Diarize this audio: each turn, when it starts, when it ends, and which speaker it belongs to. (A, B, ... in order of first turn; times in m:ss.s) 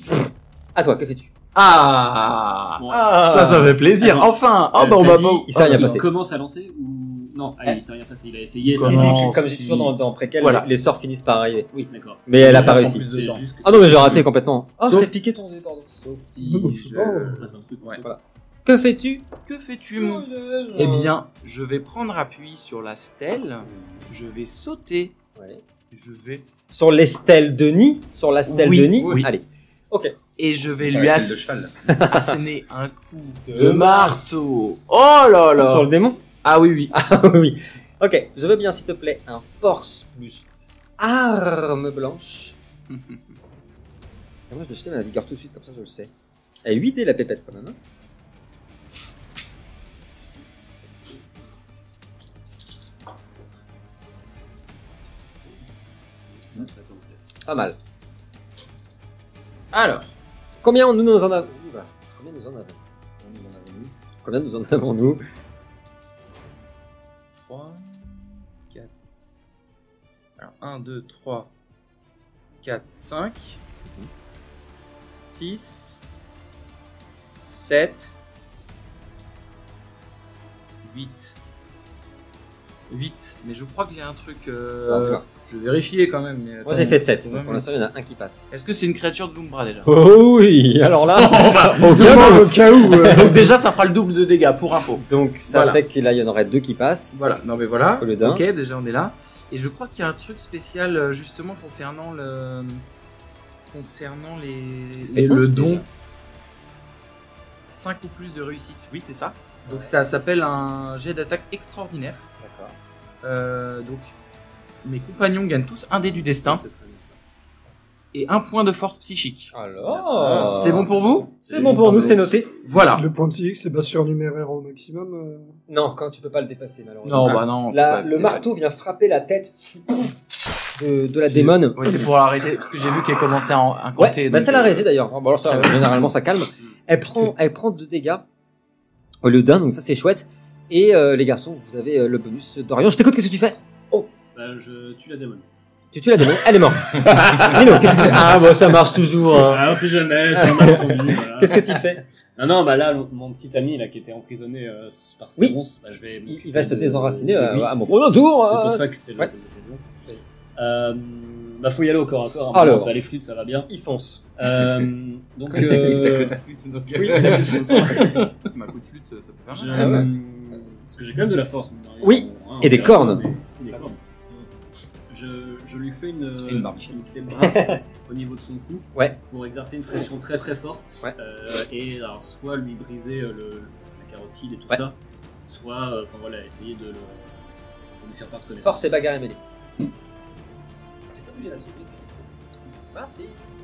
0:00.8-0:01.3 A
0:01.6-0:06.0 B
0:02.8-0:03.2 C
0:02.9-0:04.2 A
0:04.0-0:05.1 C
0:05.0-0:06.1 A
0:05.6-0:09.4 C
0:08.7-0:10.7 B
0:08.8-0:11.7 A
0:11.8-0:14.2 C
0:12.3-0:13.1 A
0:12.4-0:14.3 B
0:13.6-0:16.3 A
0:14.8-0:15.1 B
0:16.4-0:17.0 B
0:16.4-0:17.5 D
0:17.0-0:18.1 C
0:18.0-0:19.3 A
0:19.5-0:25.1 B
0:19.9-0:21.1 A
0:25.4-0:25.6 A
0:25.9-0:26.5 B
0:26.7-0:30.2 A
0:28.5-0:29.3 B
0:30.4-0:35.9 B
0:30.8-0:31.8 E
0:31.9-0:32.4 A
0:33.5-0:34.5 A
0:35.6-0:36.2 A
0:36.4-0:36.9 B
0:36.9-0:40.5 A
0:41.0-0:42.6 A
0:44.5-0:46.1 A
0:46.6-0:47.8 A
0:55.3-0:55.7 C
0:56.2-0:57.2 C
0:57.5-0:57.8 A
0:59.7-1:00.1 B
1:00.6-1:02.8 A
1:03.2-1:03.9 E
1:04.2-1:05.2 A
1:07.4-1:09.6 B
1:10.4-1:11.5 B
1:12.6-1:13.6 B
1:13.8-1:14.1 A
1:15.1-1:16.0 B
1:17.2-1:18.1 B
1:20.8-1:21.4 B
1:22.9-1:27.7 B
1:24.9-1:25.2 A
1:26.6-1:28.5 A
1:28.5-1:29.9 B
1:29.9-1:33.4 A
1:31.1-1:35.8 B
1:31.9-1:33.6 D
1:35.0-1:37.2 A
1:37.1-1:42.8 B
1:38.0-1:38.4 A
1:43.7-1:45.9 B
1:45.0-1:45.9 A
1:47.7-1:52.3 B
1:49.6-1:50.0 A
1:52.4-1:52.8 A
1:53.2-1:54.1 B
1:54.8-1:56.7 B
1:56.4-1:57.1 C
1:58.1-1:59.5 B
1:59.5-2:00.9 A
2:00.3-2:03.1 B
2:01.4-2:02.2 C
2:01.5-2:02.5 A
2:02.8-2:05.6 D
2:05.7-2:10.2 A
2:07.0-2:08.4 B
2:10.8-2:12.0 A
2:11.3-2:14.9 B
2:14.0-2:18.2 A
2:15.4-2:16.1 B
2:17.1-2:17.3 B
2:19.2-2:23.6 A
2:24.3-2:25.5 C
2:25.9-2:29.7 A
2:29.3-2:31.8 C
2:30.4-2:32.1 A
2:32.4-2:39.8 C
2:35.4-2:39.3 A
2:40.6-2:43.7 C
2:42.5-2:42.9 A
2:43.7-2:44.2 A
2:44.4-2:46.4 C
2:45.5-2:48.3 E
2:46.9-2:48.2 A
2:47.2-2:48.0 C
2:47.6-2:50.0 B
2:49.5-2:54.0 C
2:49.7-2:50.1 A
2:49.7-2:50.1 E
2:52.0-2:53.9 A
2:55.1-3:09.0 C
2:56.4-2:57.0 E
2:57.4-2:57.8 A
3:08.6-3:09.4 A
3:11.1-3:12.3 A
3:12.9-3:13.4 A